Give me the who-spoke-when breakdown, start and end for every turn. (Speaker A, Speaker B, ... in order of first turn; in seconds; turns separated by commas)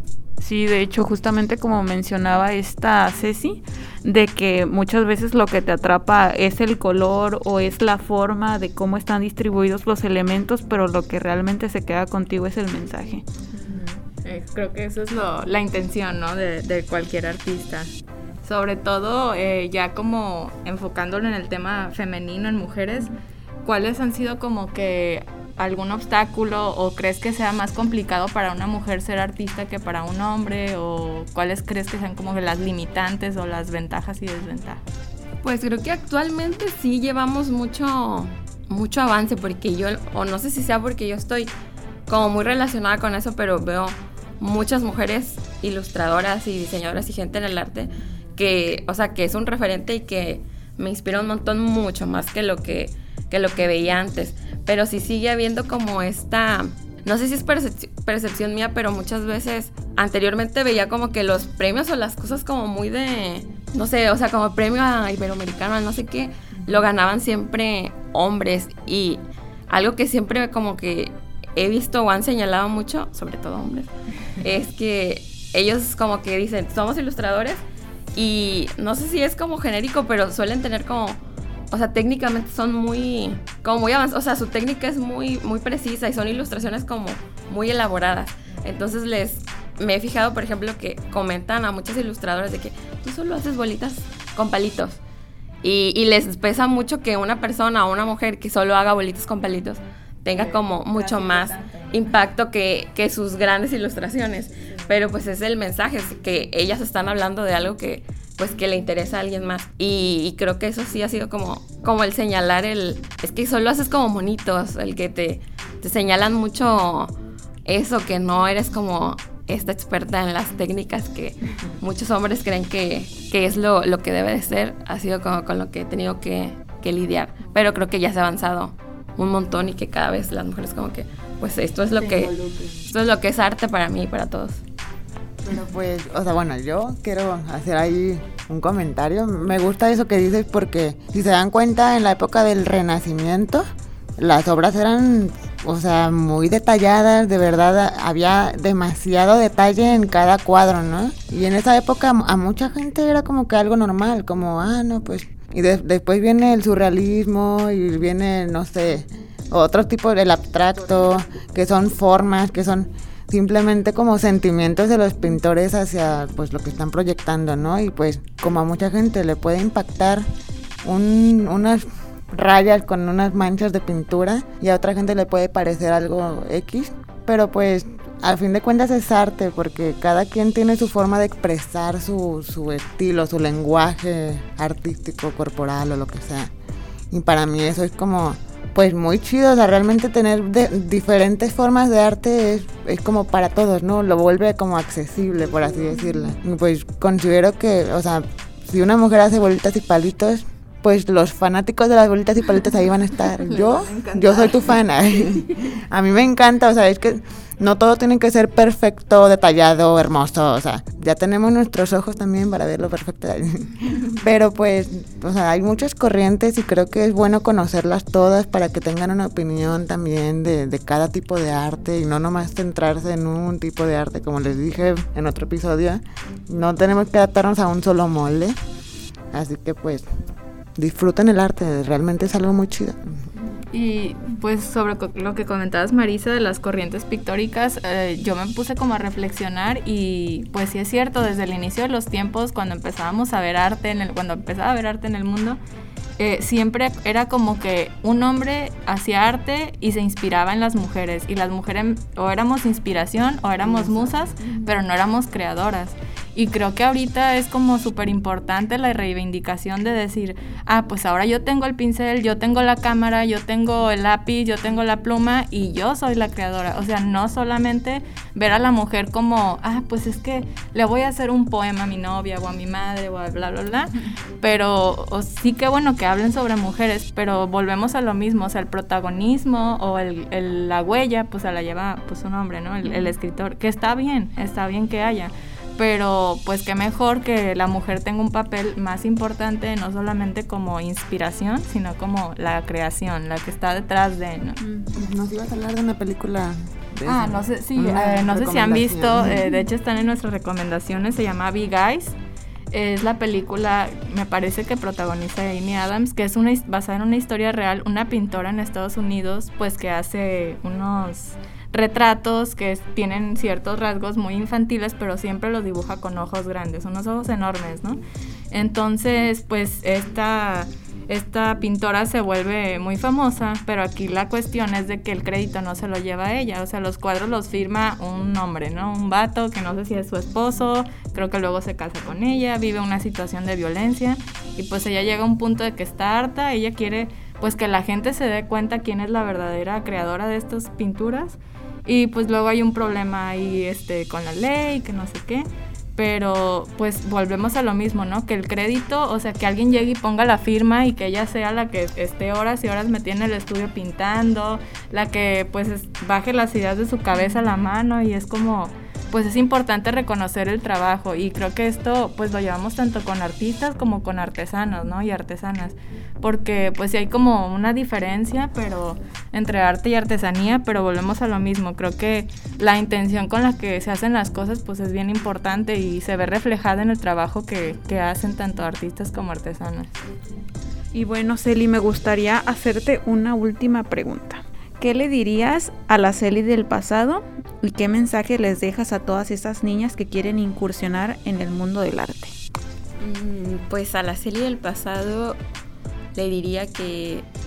Speaker A: 0.4-13.2, Speaker B: 13.5-17.9, Speaker B: 18.4-34.8, Speaker C: 35.4-41.5, Speaker C: 42.1-77.6, Speaker C: 78.2-95.0, Speaker C: 95.6-117.1, Speaker B: 100.4-102.0, Speaker B: 104.7-104.9, Speaker C: 117.7-132.3, Speaker B: 132.0-132.9, Speaker C: 132.9-134.6, Speaker D: 135.4-143.6, Speaker D: 144.2-170.2, Speaker D: 170.8-186.5, Speaker D: 187.1-228.6, Speaker B: 203.4-205.5, Speaker D: 229.3-230.1, Speaker D: 230.8-233.0, Speaker B: 233.7-245.6, Speaker B: 246.2-294.6, Speaker D: 253.7-254.1, Speaker D: 294.9-299.4, Speaker B: 297.1-302.1, Speaker B: 302.7-318.0, Speaker B: 318.5-380.0, Speaker A: 380.9-392.3, Speaker C: 393.0-395.4, Speaker C: 396.1-397.3